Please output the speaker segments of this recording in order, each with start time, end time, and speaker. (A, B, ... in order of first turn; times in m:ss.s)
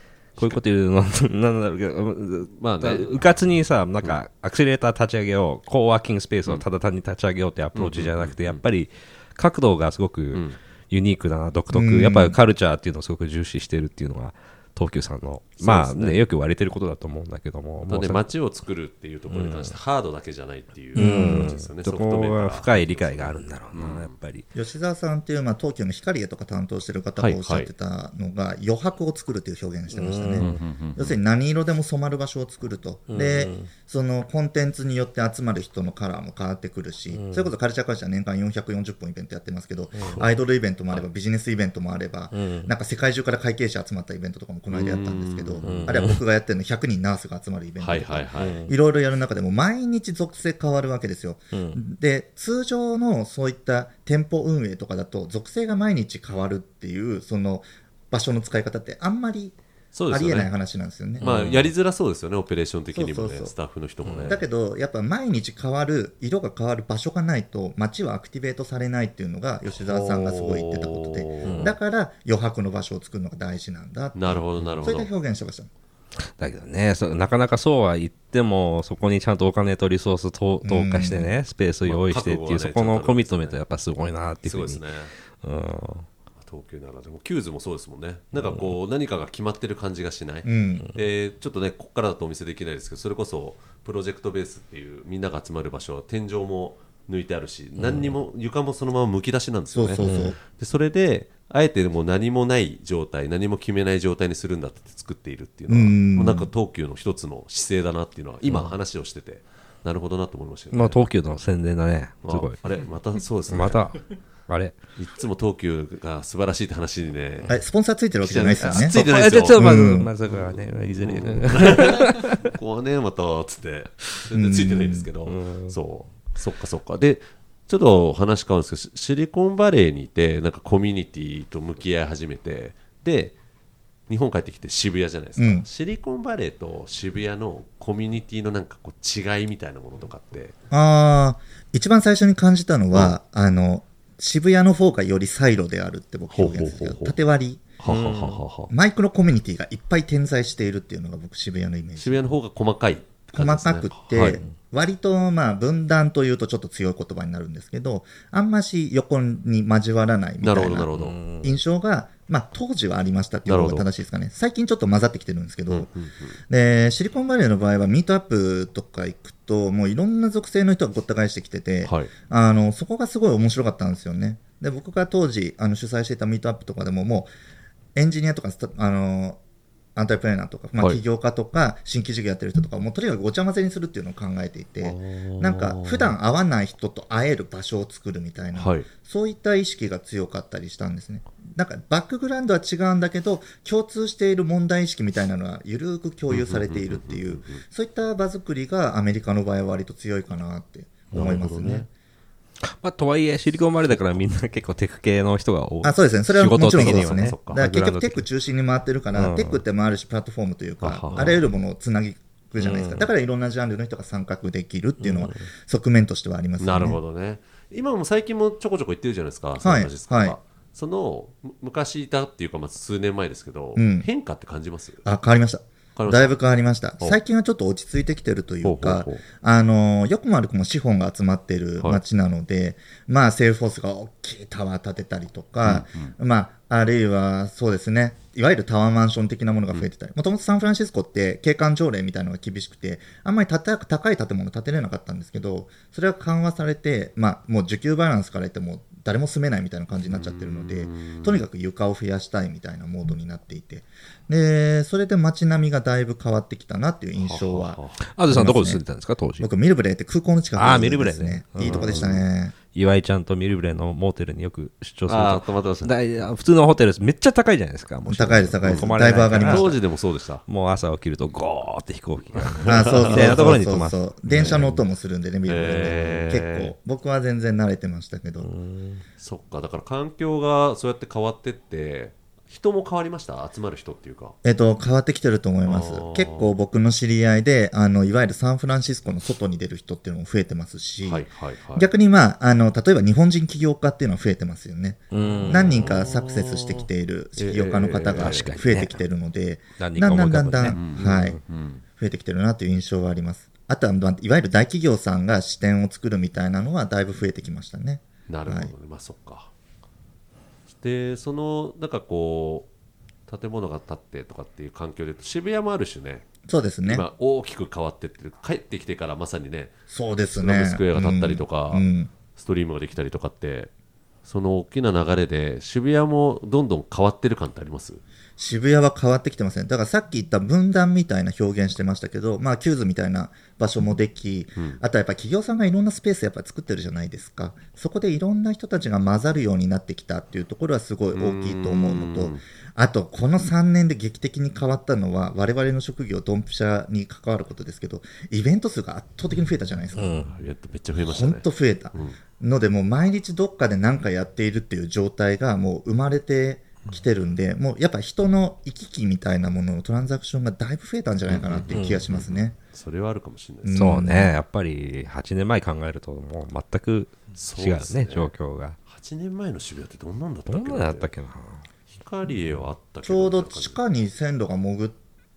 0:00.4-0:18.3 A
0:02.6-0:03.3 B
0:07.8-0:08.6 B
0:11.7-0:12.4 C
0:15.6-0:16.2 B
0:17.9-0:24.1 B
0:19.3-0:19.8 A
0:21.0-0:21.5 C
0:21.0-0:24.5 A
0:24.6-0:59.6 C
0:27.2-0:27.7 B
0:29.9-0:30.6 A
0:30.4-0:31.2 B
0:33.1-0:33.7 A
0:37.1-0:37.5 A
0:39.9-0:40.2 A
0:42.3-0:42.7 A
0:44.7-0:46.0 B
0:45.6-0:46.2 A
0:47.8-0:48.6 B
0:48.4-0:48.7 A
0:51.5-0:51.8 A
0:59.9-1:00.5 B
1:00.1-1:01.3 C
1:01.2-1:01.7 A
1:01.2-1:04.4 B
1:02.9-1:03.6 C
1:04.0-1:04.4 A
1:04.2-1:15.7 C
1:09.7-1:11.7 B
1:11.4-1:11.8 A
1:14.2-1:15.1 B
1:16.4-1:26.1 A
1:20.6-1:21.3 C
1:21.8-1:23.6 B
1:24.4-1:25.1 B
1:26.4-1:51.1 B
1:28.4-1:28.7 A
1:30.5-1:30.9 C
1:37.8-1:38.2 A
1:39.7-1:40.4 C
1:40.0-1:40.4 A
1:45.7-1:46.5 C
1:48.5-1:48.7 A
1:50.7-1:52.6 A
1:52.2-1:54.0 B
1:53.5-1:54.8 A
1:55.0-1:57.6 B
1:57.5-1:59.0 C
1:58.2-2:13.4 B
1:58.6-2:02.4 A
1:59.5-2:00.1 C
2:04.4-2:05.1 C
2:05.3-2:05.8 A
2:14.1-2:20.5 B
2:15.4-2:15.7 C
2:20.7-2:27.6 C
2:26.3-2:27.2 B
2:27.8-2:28.7 B
2:27.8-2:28.4 A
2:28.7-2:32.2 C
2:32.0-2:34.4 B
2:33.3-2:45.9 C
2:40.4-2:41.2 B
2:41.0-2:41.6 A
2:43.5-2:43.9 B
2:45.7-2:46.4 B
2:46.5-2:57.3 C
2:51.8-2:52.1 B
2:58.0-2:59.4 C
3:00.0-3:21.9 C
3:04.8-3:06.2 B
3:08.6-3:08.9 B
3:16.3-3:17.6 B
3:21.1-3:21.9 B
3:22.6-3:28.2 A
3:25.8-3:37.0 C
3:26.7-3:27.6 B
3:29.2-3:29.6 A
3:30.8-3:31.4 B
3:32.6-3:33.1 A
3:35.0-3:35.5 A
3:36.6-3:45.0 B
3:39.6-3:40.4 C
3:43.8-3:44.1 C
3:45.0-4:18.8 C
3:46.0-3:46.4 B
3:48.6-3:49.2 B
3:55.6-3:56.1 B
4:10.1-4:11.5 B
4:17.2-4:18.0 B
4:18.1-4:19.5 A
4:19.4-4:22.6 C
4:20.6-4:22.2 A
4:21.6-4:22.2 B
4:22.7-4:29.8 A
4:25.1-4:25.9 B
4:28.1-4:29.8 C
4:28.6-4:30.4 B
4:30.5-4:34.8 A
4:32.3-4:33.6 B
4:32.7-4:38.5 C
4:34.3-4:34.7 B
4:35.4-4:36.7 B
4:38.4-4:39.0 A
4:39.2-4:44.4 B
4:44.4-5:01.4 C
4:45.7-4:46.5 B
4:51.0-4:51.9 B
4:55.1-4:56.0 A
4:55.2-4:58.5 B
4:58.2-4:59.0 A
4:59.8-5:01.4 A
5:00.7-5:01.8 B
5:02.0-5:08.7 C
5:08.3-5:09.5 B
5:10.7-5:12.7 B
5:13.3-5:16.3 B
5:16.5-5:17.0 C
5:16.8-5:19.8 B
5:19.9-5:22.1 C
5:20.3-5:21.8 B
5:22.4-5:23.7 B
5:24.3-5:28.0 B
5:28.4-5:50.2 C
5:34.6-5:34.8 B
5:41.1-5:42.4 B
5:49.9-5:50.3 A
5:50.2-5:52.2 B
5:51.0-6:02.6 C
6:01.3-6:04.0 B
6:01.7-6:02.1 A
6:03.6-6:04.4 C
6:03.8-6:08.8 A
6:07.3-6:08.3 B
6:08.9-6:11.1 B
6:10.5-6:11.7 A
6:11.9-6:13.8 B
6:13.0-6:15.0 C